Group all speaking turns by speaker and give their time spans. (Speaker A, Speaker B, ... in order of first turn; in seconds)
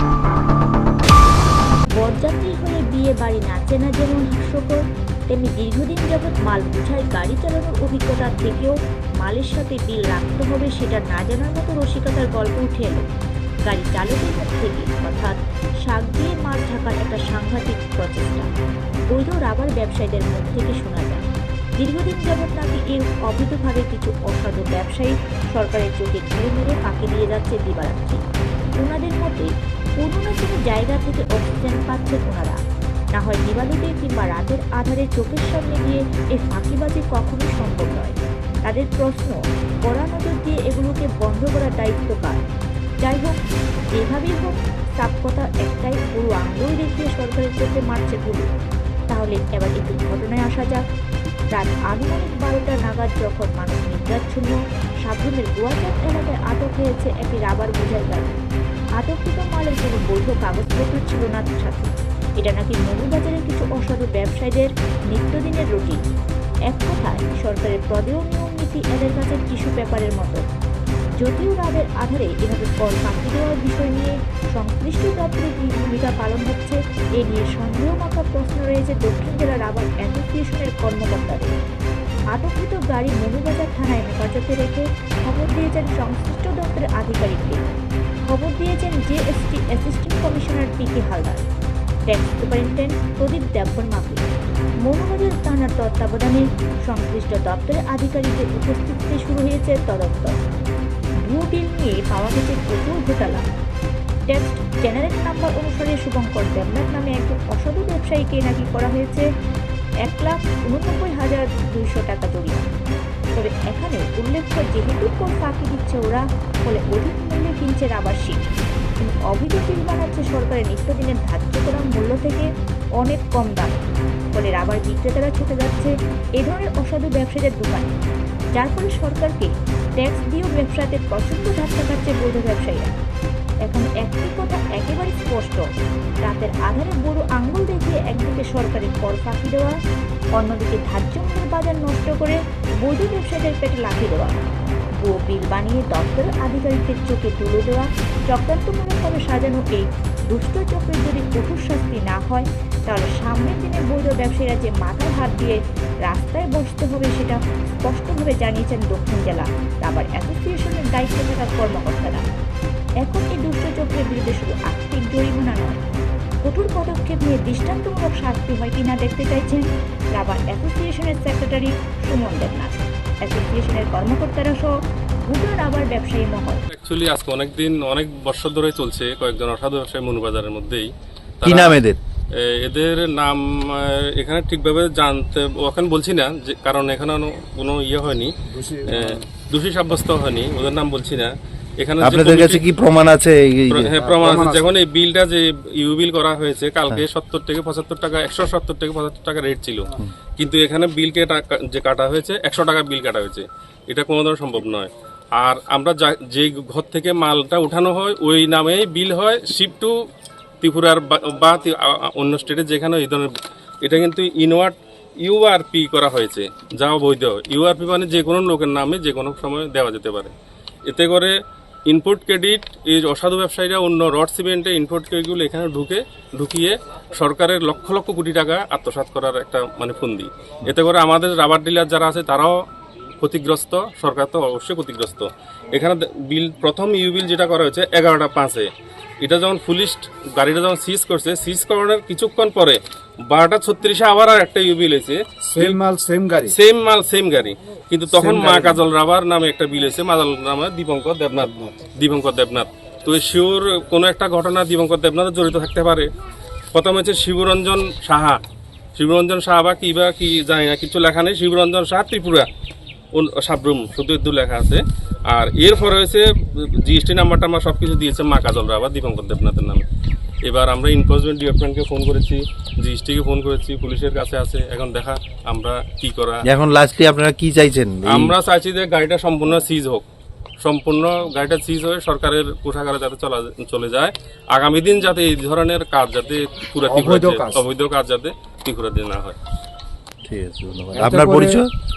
Speaker A: 2.0-13.1, 13.7-18.5, 19.1-21.3, 21.8-28.2, 28.8-32.6, 33.1-42.4, 43.0-43.4, 43.9-48.5, 49.1-50.8, 51.5-58.4, 59.0-66.0, 66.7-70.4, 71.2-81.5, 82.3-87.8, 88.3-91.5, 92.1-94.2, 94.8-100.3, 101.2-103.4, 104.3-109.3, 110.0-112.7, 113.4-128.0, 128.6-133.0, 133.7-135.6, 136.2-139.8, 140.4-144.5, 145.0-162.2, 163.0-165.8, 166.4-176.7
Speaker B: 176.7-181.8, 182.3-188.3, 188.9-192.6, 193.7-209.9, 210.6-213.3, 213.8-220.3, 220.9-221.3, 221.9-232.6, 233.2-238.7, 239.2-245.8, 246.5-256.1, 256.7-258.4, 258.9-262.5, 263.1-269.9, 270.4-276.4, 278.1-280.1, 280.6-289.4
Speaker C: 181.4-182.0, 192.0-193.9, 276.4-278.3, 290.2-291.7
Speaker D: 188.5-189.2, 194.0-194.7, 245.5-246.6, 248.1-248.8, 286.9-287.7, 290.9-291.6